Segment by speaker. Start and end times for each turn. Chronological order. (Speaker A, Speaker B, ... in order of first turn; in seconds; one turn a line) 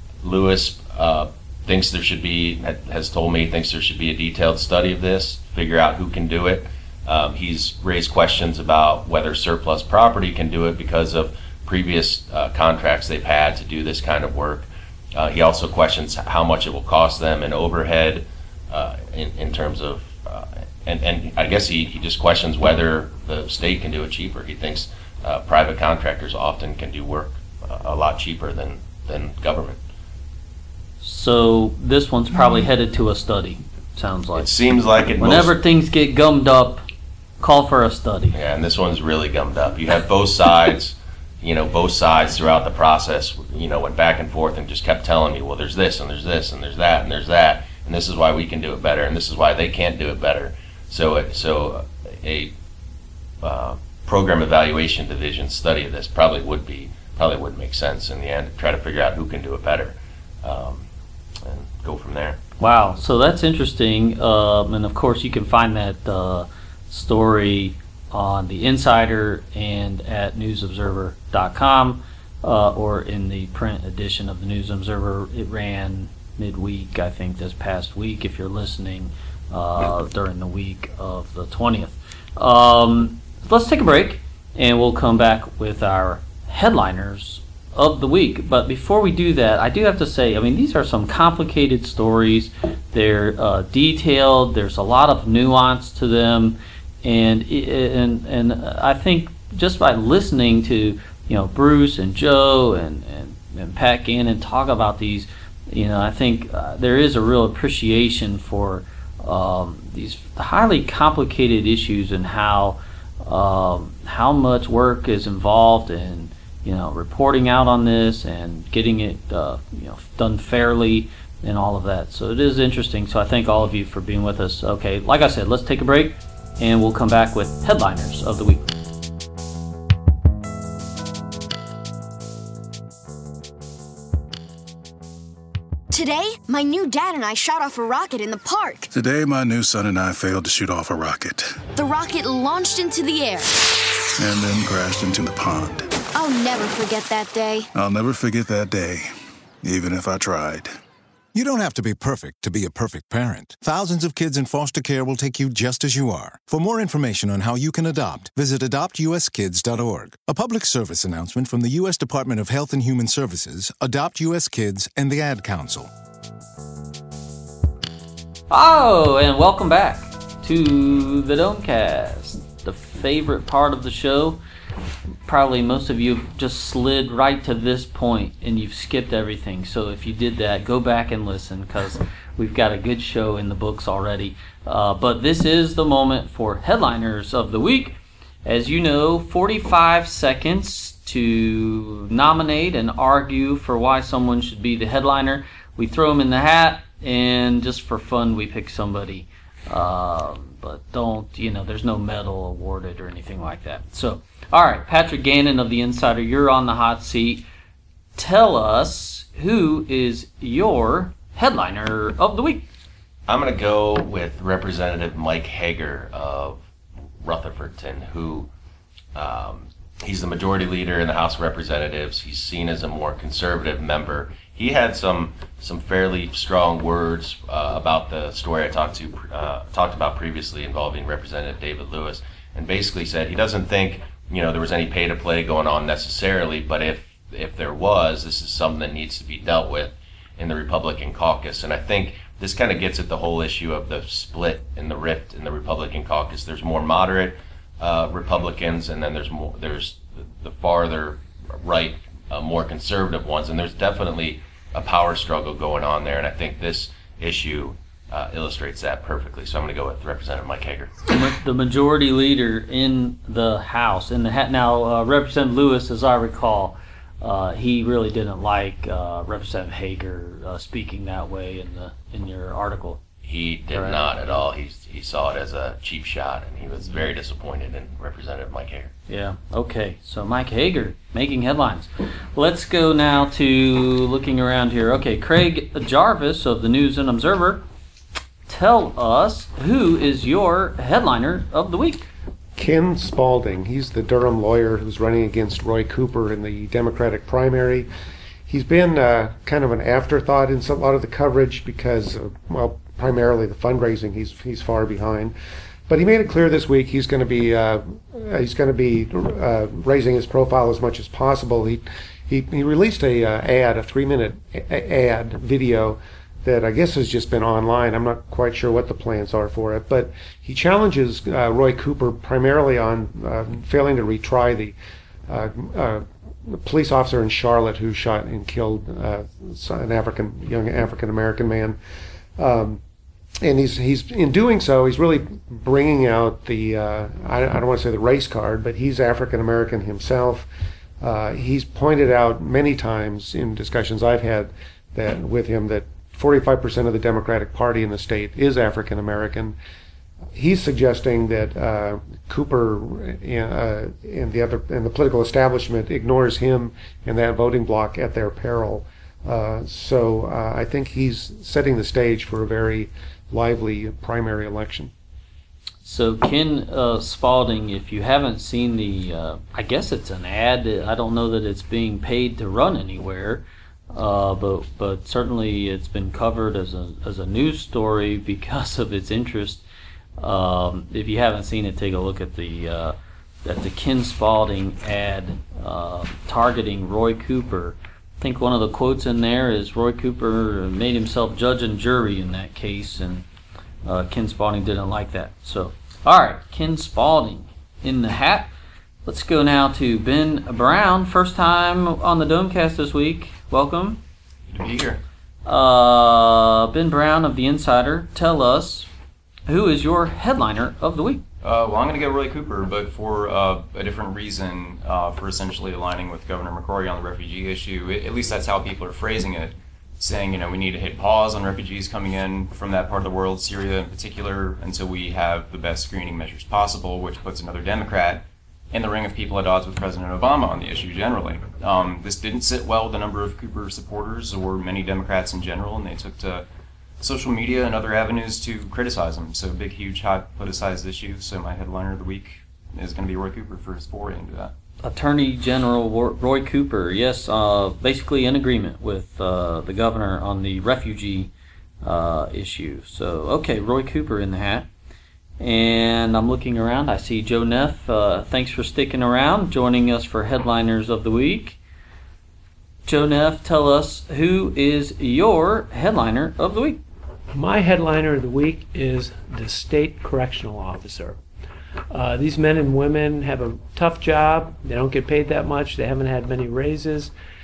Speaker A: 0.2-29.8
Speaker B: 31.0-34.5
Speaker A: 34.3-35.6
Speaker B: 35.2-36.9
Speaker B: 37.4-38.4
Speaker A: 38.3-52.5
Speaker A: 53.4-60.9
Speaker A: 61.5-62.4
Speaker B: 62.6-128.6
Speaker C: 135.9-138.9
Speaker D: 138.9-141.5
Speaker C: 141.8-143.6
Speaker D: 144.2-145.9
Speaker C: 146.2-147.7
Speaker D: 147.7-149.1
Speaker D: 149.6-150.8
Speaker E: 151.3-165.9
Speaker B: 168.5-174.4
Speaker B: 175.3-207.4
Speaker B: 208.2-212.7
Speaker A: 213.3-216.6
Speaker A: 217.2-218.5
Speaker A: 219.2-260.9
Speaker B: 261.1-273.0
Speaker A: 273.2-278.9
Speaker B: 273.7-274.0
Speaker B: 279.1-287.6
Speaker B: 288.5-292.1
Speaker F: 292.6-297.9
Speaker F: 298.5-305.3
Speaker F: 305.9-324.8
Speaker F: 325.3-331.8
Speaker F: 332.4-332.8
Speaker F: 333.4-340.5
Speaker F: 341.0-349.6
Speaker F: 350.3-364.9
Speaker B: 365.8-379.6
Speaker B: 380.2-393.2
Speaker B: 393.9-398.5
Speaker B: 399.1-404.0
Speaker G: 404.5-405.0
Speaker B: 405.4-408.9
Speaker B: 409.5-411.2
Speaker G: 411.4-436.5
Speaker G: 437.0-444.5
Speaker B: 444.8-451.3
Speaker B: 451.8-454.7
Speaker B: 455.4-461.6
Speaker B: 462.9-466.8
Speaker H: 467.3-471.2
Speaker H: 471.9-477.1